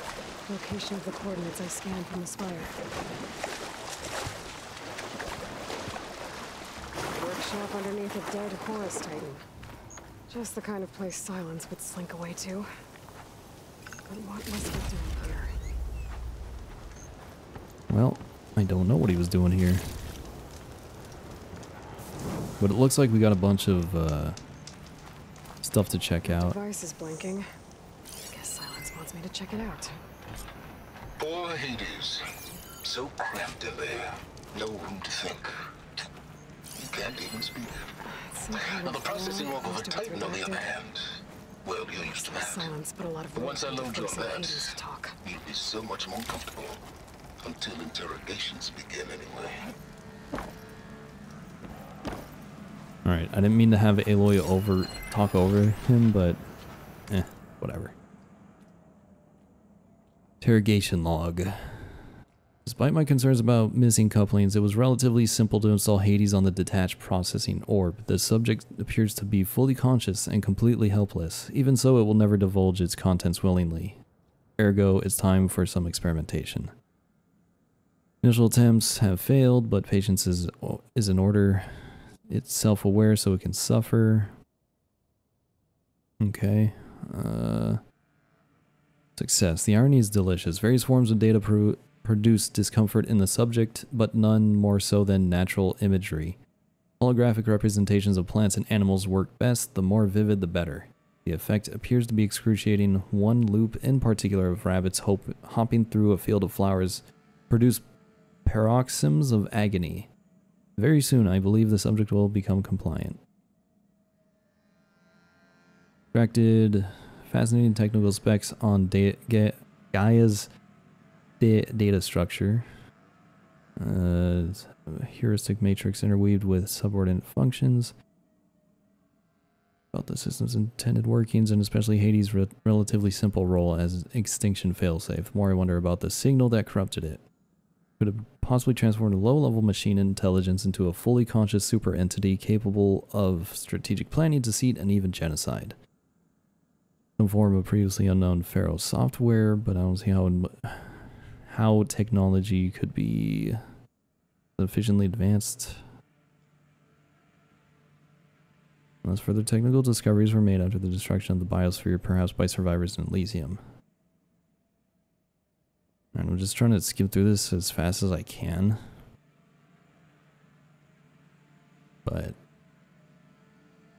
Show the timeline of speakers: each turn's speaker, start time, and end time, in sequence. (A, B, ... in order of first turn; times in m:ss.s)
0:00.5-0:02.7 A
0:07.1-0:09.4 A
0:10.3-0:12.7 A
0:14.0-0:15.5 A
0:17.9-0:19.9 B
0:22.6-0:24.4 B
0:25.6-0:26.6 B
0:26.2-0:27.4 A
0:28.3-0:30.0 A
0:31.2-0:32.2 C
0:32.8-0:35.5 C
0:36.8-0:37.8 C
0:38.0-0:40.6 A
0:38.6-0:41.0 C
0:41.6-0:42.7 C
0:42.0-0:45.1 A
0:43.3-0:44.7 C
0:45.2-0:46.8 C
0:47.4-0:49.7 C
0:53.0-0:56.4 B
0:57.1-0:57.9 B
1:00.4-1:02.0 B
1:02.6-1:14.0 B
1:14.6-1:16.7 B
1:18.2-1:24.3 B
1:26.2-1:27.8 B
1:29.2-1:36.4 B
1:37.0-1:47.8 B
1:48.4-1:50.1 B
1:50.8-1:53.2 B
1:56.1-2:00.5 B
2:01.4-2:02.6 B
2:03.8-2:07.9 B
2:09.9-2:17.2 B
2:18.0-2:25.8 B
2:27.2-2:33.6 B
2:34.6-2:35.8 B
2:39.0-2:43.6 B
2:46.1-2:48.8 B
2:52.0-2:52.4 B